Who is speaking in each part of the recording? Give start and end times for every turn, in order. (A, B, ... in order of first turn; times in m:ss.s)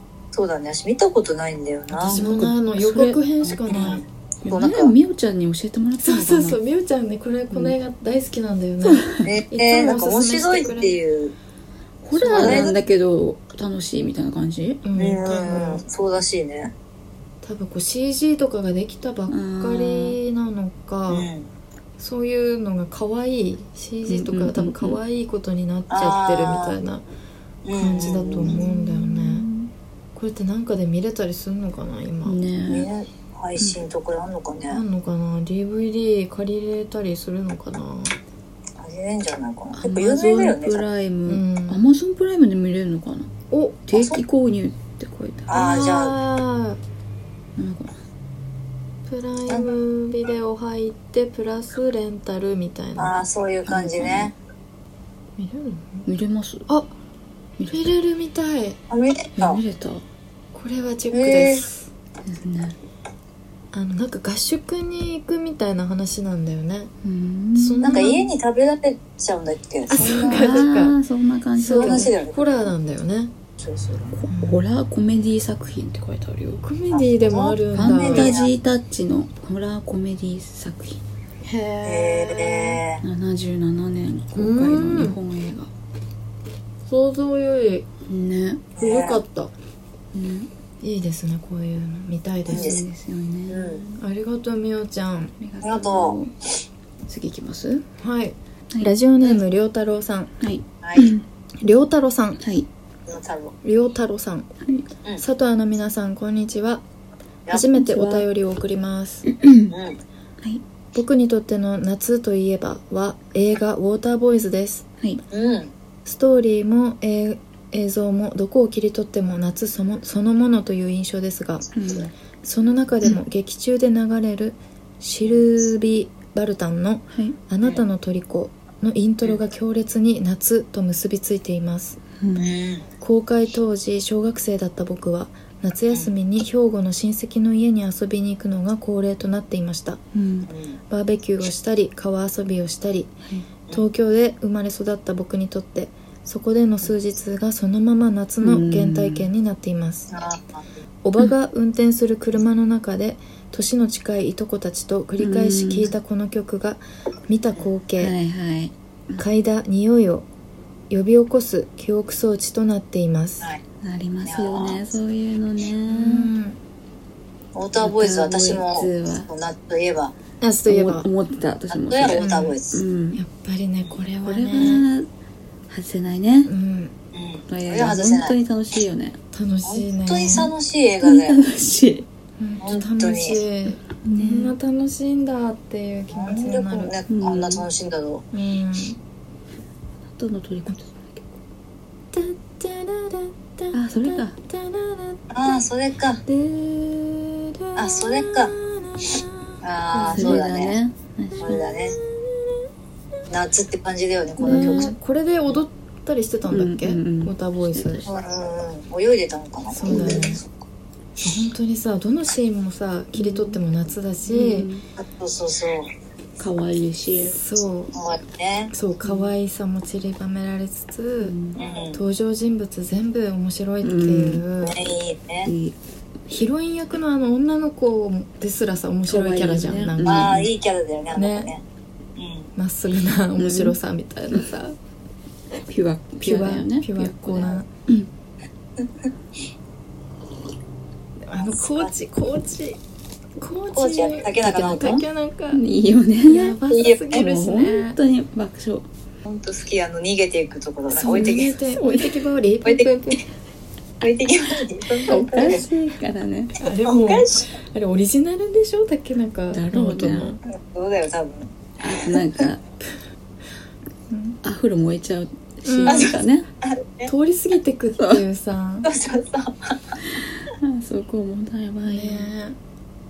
0:00.3-0:02.2 A
0:01.9-0:04.0 B
0:02.0-0:03.6 C
0:03.7-0:04.9 A
0:04.4-0:06.6 C
0:06.0-0:11.0 B
0:07.5-0:07.8 C
0:08.8-0:09.3 C
0:09.2-0:11.3 A
0:12.0-0:14.8 C
0:12.2-0:12.7 B
0:12.2-0:12.8 A
0:14.8-0:15.8 B
0:15.0-0:16.7 A
0:17.4-0:21.3 B
0:19.3-0:20.2 C
0:21.1-0:21.5 A
0:22.0-0:27.0 B
0:24.1-0:25.0 C
0:25.9-0:26.8 A
0:27.6-0:28.6 A
0:27.8-0:29.5 B
0:28.4-0:29.7 C
0:30.1-0:32.4 B
0:32.2-0:32.9 C
0:32.7-0:34.8 A
0:34.7-0:38.2 B
0:38.8-0:40.8 A
0:39.7-0:43.3 C
0:41.3-0:41.8 B
0:43.5-0:43.8 B
0:43.9-0:45.6 C
0:43.9-0:44.2 A
0:45.5-0:46.2 A
0:45.5-0:46.8 B
0:47.6-0:48.0 C
0:49.0-0:53.2 B
0:53.0-0:54.3 A
0:53.7-0:54.3 C
0:55.4-0:56.1 B
0:56.1-0:56.7 C
0:57.6-0:57.9 C
0:57.7-0:58.8 B
0:58.9-0:59.6 A
0:59.4-1:00.0 C
1:00.5-1:01.9 B
1:01.1-1:01.7 A
1:02.3-1:02.8 C
1:03.7-1:06.9 B
1:07.0-1:08.2 C
1:07.5-1:08.2 B
1:07.8-1:10.4 A
1:09.9-1:11.0 B
1:10.0-1:12.1 C
1:11.5-1:13.3 B
1:11.7-1:12.6 A
1:13.6-1:14.2 A
1:14.1-1:16.6 C
1:14.3-1:14.6 B
1:16.6-1:18.4 B
1:16.9-1:18.5 A
1:17.7-1:21.0 C
1:21.4-1:22.8 B
1:21.8-1:23.0 A
1:23.0-1:25.7 C
1:24.3-1:25.2 B
1:26.8-1:27.8 B
1:28.0-1:28.6 C
1:28.8-1:29.2 A
1:28.8-1:29.5 B
1:30.1-1:30.5 C
1:30.8-1:32.8 B
1:32.5-1:34.0 C
1:32.5-1:32.8 A
1:33.5-1:33.8 A
1:34.0-1:35.3 B
1:35.4-1:36.3 C
1:35.6-1:36.2 A
1:37.0-1:37.8 C
1:38.0-1:40.3 B
1:38.7-1:39.4 C
1:40.4-1:41.2 C
1:40.8-1:41.1 A
1:41.6-1:42.4 B
1:42.4-1:42.7 C
1:43.1-1:43.6 A
1:43.6-1:44.5 B
1:44.6-1:44.9 C
1:45.2-1:46.8 B
1:47.5-1:49.3 B
1:47.8-1:48.3 C
1:49.3-1:49.8 C
1:49.7-1:50.0 A
1:50.9-1:54.8 B
1:55.3-1:55.7 A
1:56.0-2:01.7 B
2:01.7-2:02.1 C
2:02.4-2:12.0 B
2:07.1-2:07.4 C
2:12.2-2:12.5 C
2:12.3-2:12.8 A
2:13.0-2:20.0 B
2:20.1-2:20.5 C
2:20.5-2:20.8 A
2:20.9-2:23.2 B
2:23.7-2:30.1 B
2:28.4-2:29.3 C
2:30.1-2:30.6 A
2:31.0-2:38.1 B
2:35.2-2:35.9 C
2:38.0-2:39.2 C
2:39.2-2:40.2 B
2:40.9-2:43.5 B
2:43.8-2:46.3 C
2:44.2-2:44.9 A
2:45.9-2:46.6 B
2:47.5-2:50.1 A
2:47.8-2:49.3 C
2:50.4-2:51.1 B
2:50.7-2:53.2 C
2:51.7-2:52.8 A
2:52.1-2:52.6 B
2:53.1-2:54.9 B
2:54.2-2:55.1 C
2:55.7-2:56.5 C
2:56.4-2:56.9 B
2:57.1-2:58.4 A
2:57.5-2:59.2 C
2:59.3-3:00.5 B
2:59.6-3:01.4 A
3:01.0-3:02.1 C
3:02.4-3:06.9 B
3:02.6-3:03.4 A
3:04.0-3:04.6 C
3:06.1-3:08.2 A
3:07.1-3:07.7 C
3:08.3-3:09.0 B
3:10.0-3:11.3 C
3:12.1-3:15.6 B
3:13.7-3:14.4 C
3:15.3-3:16.2 A
3:16.3-3:20.4 B
3:17.8-3:18.5 A
3:19.6-3:20.8 A
3:20.1-3:21.6 C
3:21.4-3:22.0 A
3:23.3-3:24.9 A
3:24.4-3:24.9 C
3:24.4-3:28.1 B
3:26.5-3:28.1 C
3:28.0-3:30.4 A
3:29.7-3:30.4 B
3:29.8-3:30.4 C
3:31.2-3:34.7 B
3:33.1-3:33.6 C
3:34.2-3:34.8 C
3:35.0-3:35.9 A
3:36.4-3:37.4 C
3:37.2-3:37.9 B
3:37.9-3:38.7 A
3:38.7-3:41.3 B
3:39.0-3:39.3 C
3:41.2-3:41.6 C
3:41.6-3:42.0 A
3:41.9-3:44.8 B
3:43.8-3:44.4 C
3:44.6-3:45.5 A
3:45.4-3:45.8 C
3:46.3-3:50.4 B
3:49.1-3:50.5 C
3:50.0-3:51.6 A
3:51.1-3:51.5 B
3:52.2-3:52.5 A
3:52.6-3:54.8 B
3:53.4-3:53.8 C
3:55.7-3:58.1 C
3:56.2-3:57.7 B
3:58.8-3:59.1 A
4:01.2-4:02.8 B
4:01.3-4:01.9 A
4:03.4-4:05.6 B
4:03.7-4:05.0 A
4:04.4-4:08.9 C
4:06.2-4:08.0 B
4:06.7-4:07.1 A
4:09.2-4:11.5 A
4:10.9-4:13.3 B
4:11.1-4:12.3 C
4:12.6-4:12.9 A
4:14.0-4:15.6 A
4:15.0-4:16.6 C
4:16.6-4:20.4 B
4:16.8-4:17.5 A
4:19.5-4:20.4 C
4:20.5-4:22.4 A
4:21.8-4:22.6 C
4:24.1-4:24.4 B
4:24.4-4:26.5 C
4:25.6-4:26.1 B
4:25.8-4:27.1 A
4:27.0-4:28.9 B
4:28.8-4:30.0 A
4:30.1-4:32.3 C
4:31.8-4:32.6 B